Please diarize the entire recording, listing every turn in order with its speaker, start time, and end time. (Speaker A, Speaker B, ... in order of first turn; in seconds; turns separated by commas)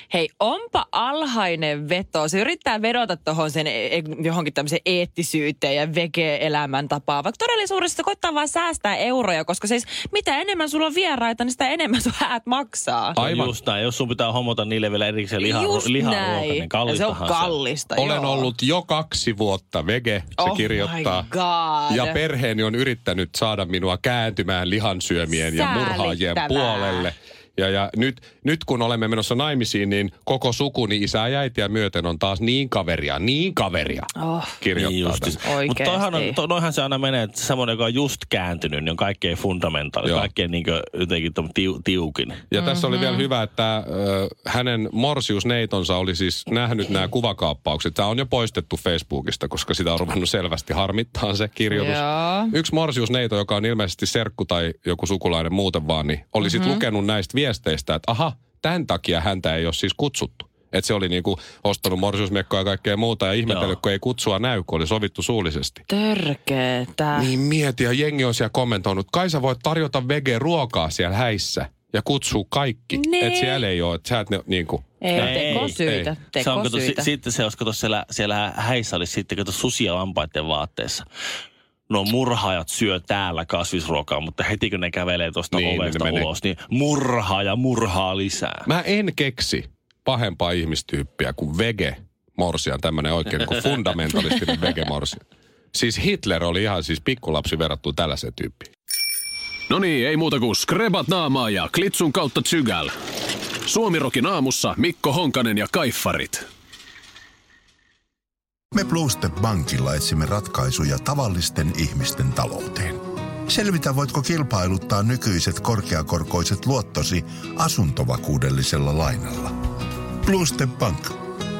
Speaker A: 0.1-13.2, Speaker B: 13.1-13.6, Speaker C: 13.2-17.6, Speaker A: 15.4-18.5, Speaker B: 17.9-21.3, Speaker A: 20.4-22.2, Speaker B: 21.9-35.4, Speaker A: 25.3-27.1, Speaker A: 34.2-34.6, Speaker C: 34.8-42.4, Speaker A: 35.4-36.4, Speaker B: 40.0-40.3, Speaker B: 42.5-65.8, Speaker A: 42.5-43.3, Speaker A: 51.7-52.5, Speaker A: 56.4-56.8, Speaker C: 63.5-63.8, Speaker A: 65.9-67.3, Speaker B: 67.1-76.1, Speaker A: 72.9-73.6, Speaker A: 75.0-77.1, Speaker C: 75.1-75.8, Speaker C: 76.4-81.0, Speaker C: 81.9-88.7, Speaker B: 85.5-86.3, Speaker B: 88.7-95.2, Speaker B: 95.7-98.7, Speaker D: 99.7-102.9, Speaker D: 103.7-106.4, Speaker E: 108.7-119.5, Speaker E: 120.2-121.2